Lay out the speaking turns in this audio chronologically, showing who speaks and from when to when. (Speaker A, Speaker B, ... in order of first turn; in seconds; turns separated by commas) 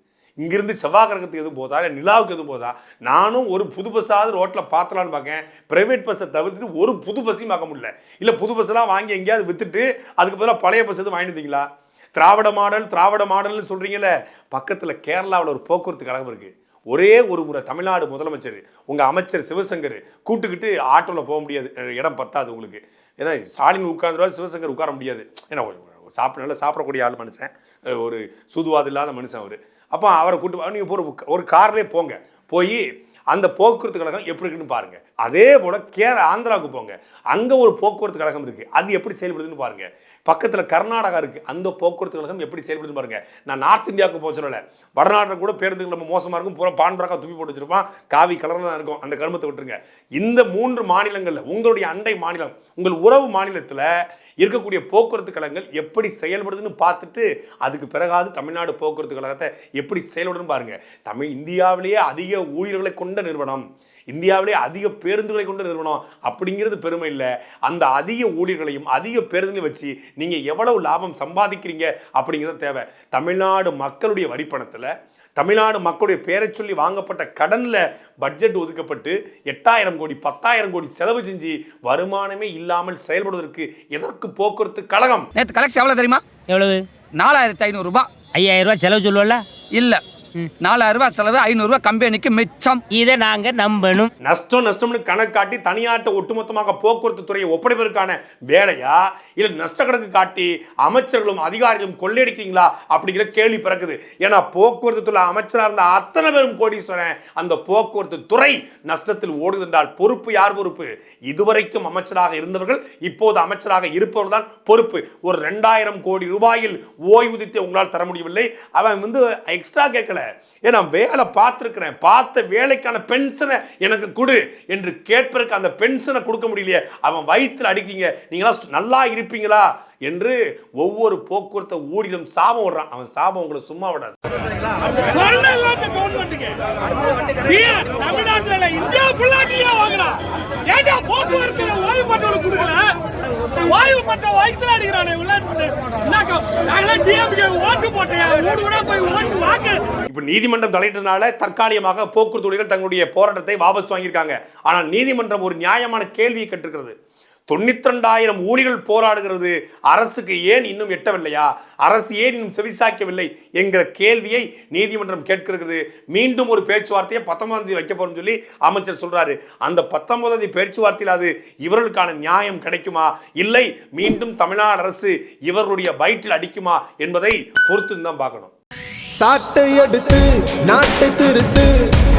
Speaker A: 0.4-53.9, Speaker A: 54.4-85.3, Speaker B: 85.3-86.4, Speaker C: 86.5-86.8, Speaker B: 87.1-88.2, Speaker C: 88.3-89.4, Speaker B: 89.7-90.0, Speaker B: 90.6-92.8, Speaker C: 92.9-94.1, Speaker A: 94.2-134.2, Speaker D: 135.1-140.1, Speaker D: 140.7-142.9, Speaker D: 143.7-149.8, Speaker A: 150.1-156.9, Speaker A: 157.5-178.5, Speaker E: 179.2-181.7